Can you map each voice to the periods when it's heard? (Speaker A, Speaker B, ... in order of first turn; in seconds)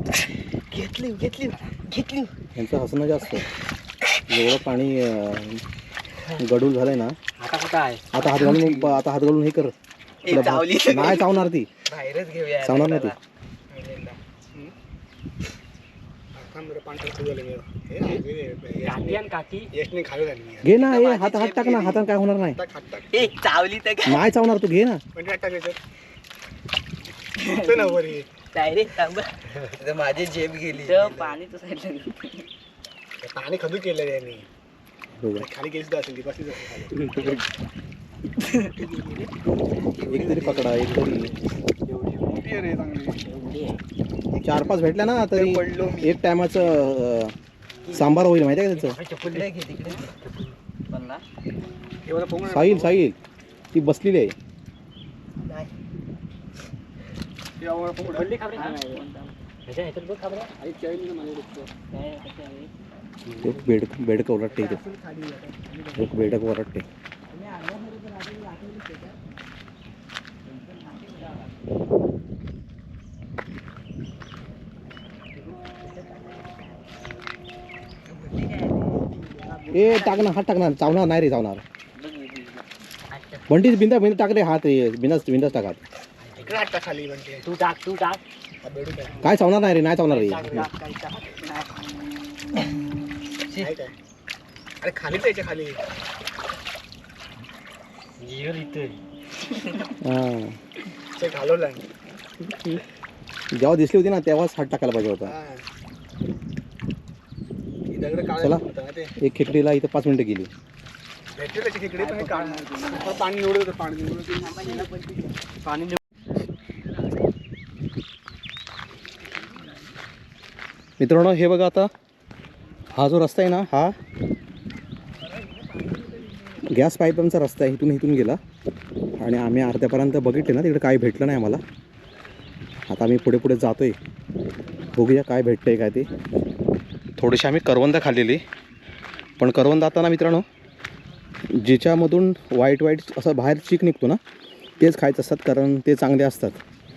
Speaker A: 0.7-2.3, 8.2-8.7, 10.2-13.1, 13.7-14.2, 20.8-22.0, 23.1-24.2, 27.4-32.5, 37.1-37.4, 38.4-39.3, 39.8-40.3, 43.2-43.8, 45.3-46.1, 48.9-50.1, 50.9-51.2, 55.4-55.7, 58.4-59.3, 61.9-62.7, 67.3-69.0, 78.3-80.3, 82.0-83.4, 90.1-91.7, 111.9-113.2, 114.4-115.3
Speaker B: 2.5-3.4, 4.3-5.6, 6.3-7.2, 8.1-9.7, 10.2-11.7, 12.6-13.1, 20.6-22.6, 24.0-25.0, 35.2-35.5, 40.0-41.3, 44.4-47.3, 47.9-49.0, 52.4-53.1, 53.7-54.3, 63.4-64.8, 65.9-66.8, 79.7-81.6, 83.5-85.8, 89.2-90.7, 100.0-100.5, 103.5-105.3, 108.4-108.6, 109.2-110.5, 121.0-121.9, 122.9-123.9, 126.7-128.4, 129.2-131.6, 132.9-133.9, 134.9-136.1, 137.2-138.4, 139.4-140.4, 141.5-144.2, 144.8-146.6
Speaker C: 7.4-8.0, 18.8-19.7, 40.1-41.3, 41.8-42.5, 48.8-50.5, 58.0-59.0, 59.6-60.5, 87.4-88.2, 90.4-90.7, 98.2-99.0, 115.6-116.0
Speaker D: 16.3-20.8, 22.6-23.3, 25.1-25.8, 27.4-28.3, 30.7-31.4, 33.2-34.5, 35.3-37.4, 42.3-43.2, 44.3-45.1, 52.1-52.9, 57.6-58.3, 60.6-61.7, 86.4-87.5, 88.6-89.2, 93.5-93.9, 94.8-95.8, 101.2-101.9, 105.2-105.6, 107.9-109.1, 111.3-114.9